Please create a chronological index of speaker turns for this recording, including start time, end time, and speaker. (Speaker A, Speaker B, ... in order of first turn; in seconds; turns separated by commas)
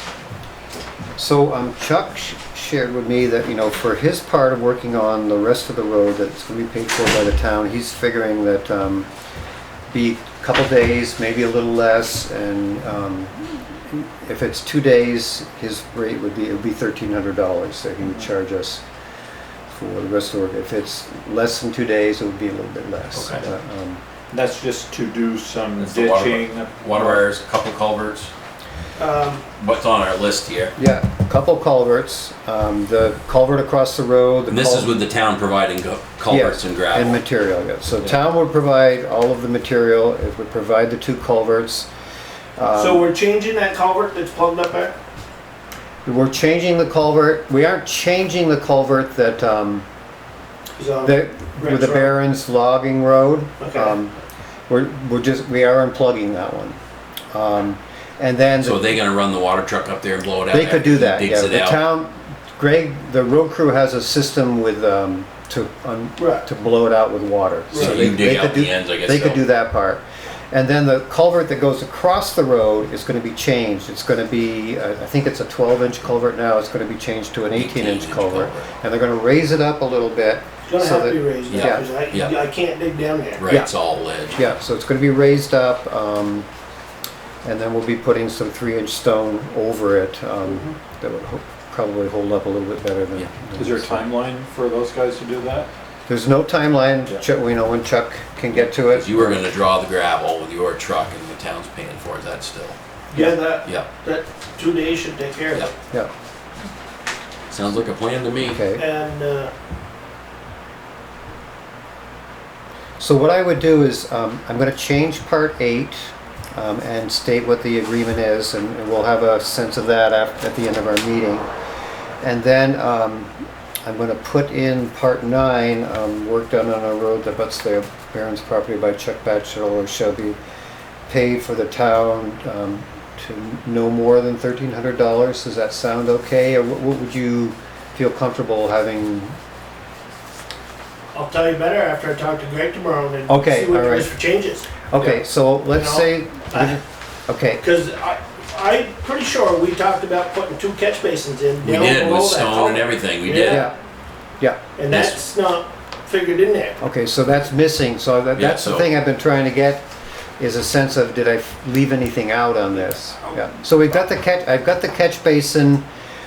Speaker A: 1.2-9.1, Speaker A: 9.9-18.8, Speaker A: 19.7-24.0, Speaker B: 23.1-23.4, Speaker C: 24.3-27.2, Speaker B: 25.8-28.3, Speaker D: 29.0-29.4, Speaker B: 29.6-30.8, Speaker A: 30.8-34.9, Speaker B: 34.5-37.2, Speaker A: 36.3-41.9, Speaker A: 42.6-43.1, Speaker D: 42.8-45.0, Speaker A: 46.0-49.9, Speaker D: 50.8-52.1, Speaker A: 51.0-54.2, Speaker D: 53.6-54.0, Speaker A: 54.7-56.8, Speaker A: 57.3-59.0, Speaker B: 58.6-61.8, Speaker A: 60.5-81.8, Speaker D: 66.2-66.5, Speaker D: 67.7-68.1, Speaker B: 67.7-69.5, Speaker B: 77.5-78.7, Speaker D: 80.7-83.5, Speaker B: 81.5-82.4, Speaker B: 83.3-84.5, Speaker A: 84.3-86.5, Speaker A: 87.4-94.1, Speaker D: 90.5-90.7, Speaker C: 93.5-95.7, Speaker A: 96.1-99.4, Speaker B: 98.5-102.8, Speaker D: 103.1-105.7, Speaker A: 103.1-103.5, Speaker B: 107.5-108.6, Speaker A: 108.4-108.8, Speaker D: 108.8-109.5, Speaker A: 113.0-121.5, Speaker A: 122.2-123.3, Speaker A: 123.8-130.4, Speaker A: 131.1-139.4, Speaker D: 141.1-145.2, Speaker A: 143.3-144.2, Speaker A: 144.9-147.6, Speaker D: 145.7-146.8, Speaker D: 147.6-153.7, Speaker B: 151.6-153.7, Speaker A: 153.4-153.7, Speaker D: 154.8-156.8, Speaker B: 154.9-155.2, Speaker A: 156.8-159.9, Speaker B: 158.3-158.9, Speaker A: 160.4-165.8, Speaker D: 162.7-164.0